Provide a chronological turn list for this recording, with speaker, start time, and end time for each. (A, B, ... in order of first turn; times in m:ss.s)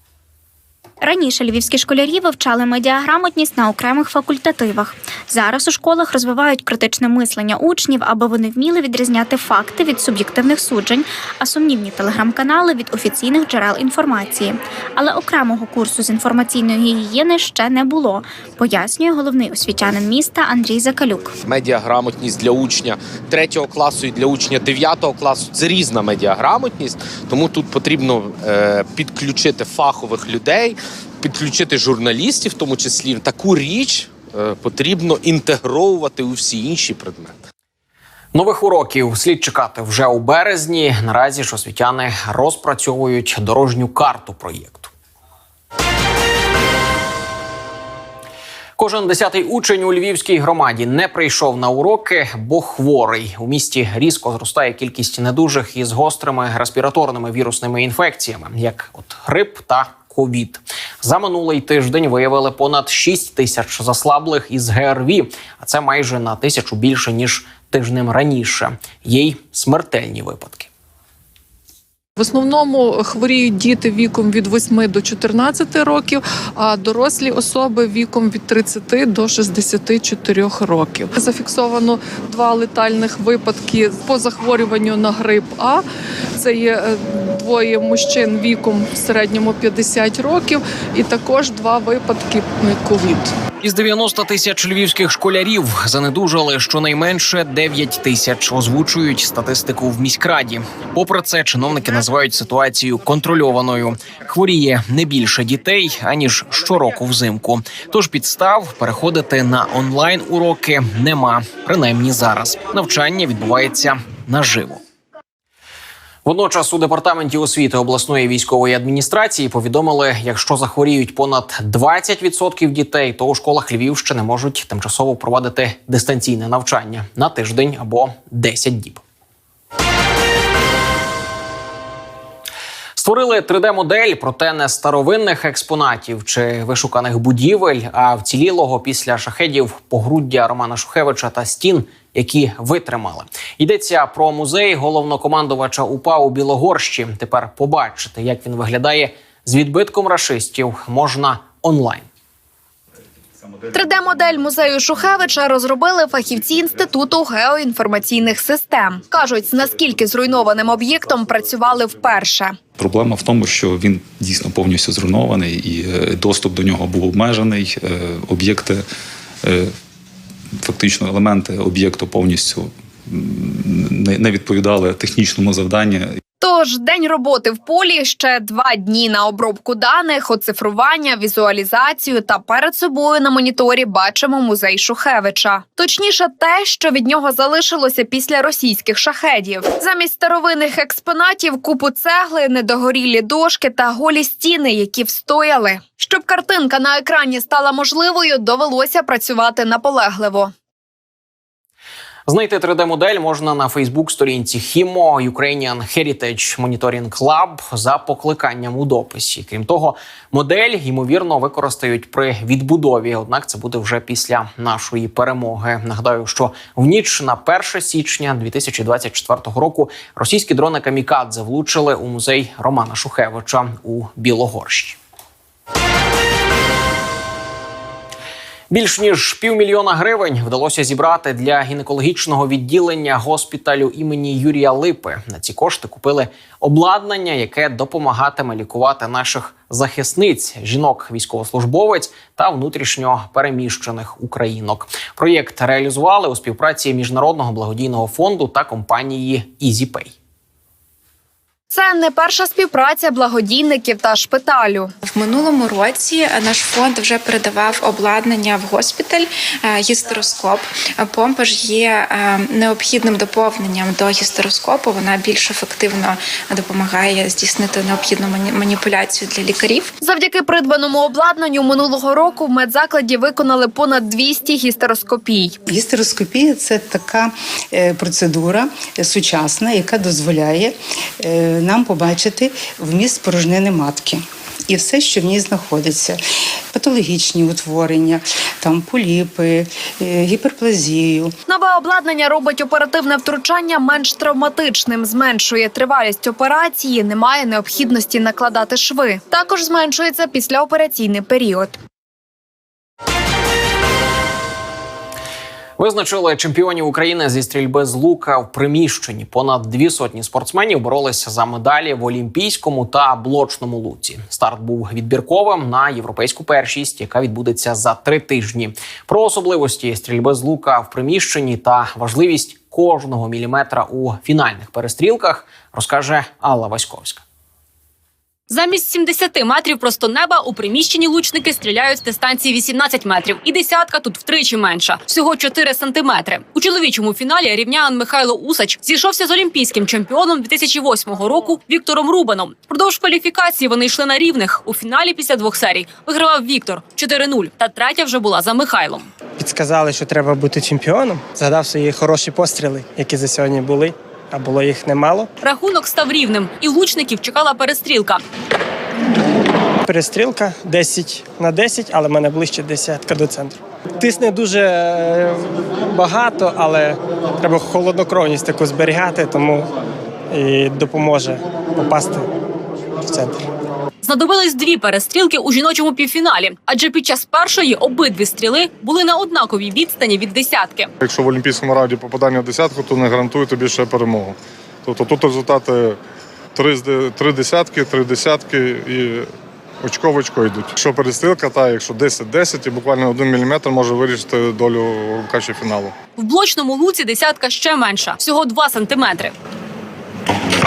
0:01.0-0:21.3 A
0:21.4-0:37.4 B
0:38.3-0:44.9 C
0:48.8-1:10.7 C
1:12.2-1:25.8 D
1:26.4-1:33.3 D
1:33.6-1:54.8 C
1:56.2-2:09.0 C
2:13.0-2:32.1 C
2:33.7-2:42.6 E
2:42.8-2:48.8 F
2:49.4-2:49.7 F
2:50.6-2:56.0 F
2:56.4-3:20.5 E
3:22.3-3:45.0 C
3:48.7-4:10.1 C
4:11.7-4:14.9 E
4:15.0-4:29.9 G
4:30.0-4:35.6 E
4:35.7-4:46.2 H
4:46.7-4:51.3 H
4:51.5-5:01.8 E
5:05.8-5:27.2 C
5:28.5-5:49.1 I
5:49.4-5:55.3 J
5:55.4-5:58.2 I
5:59.8-6:09.7 J
6:10.3-6:12.3 J
6:13.1-6:13.4 J
6:14.0-6:20.9 I
6:21.0-6:26.0 K
6:26.5-6:29.2 K
6:29.8-6:35.9 K
6:36.2-6:39.3 I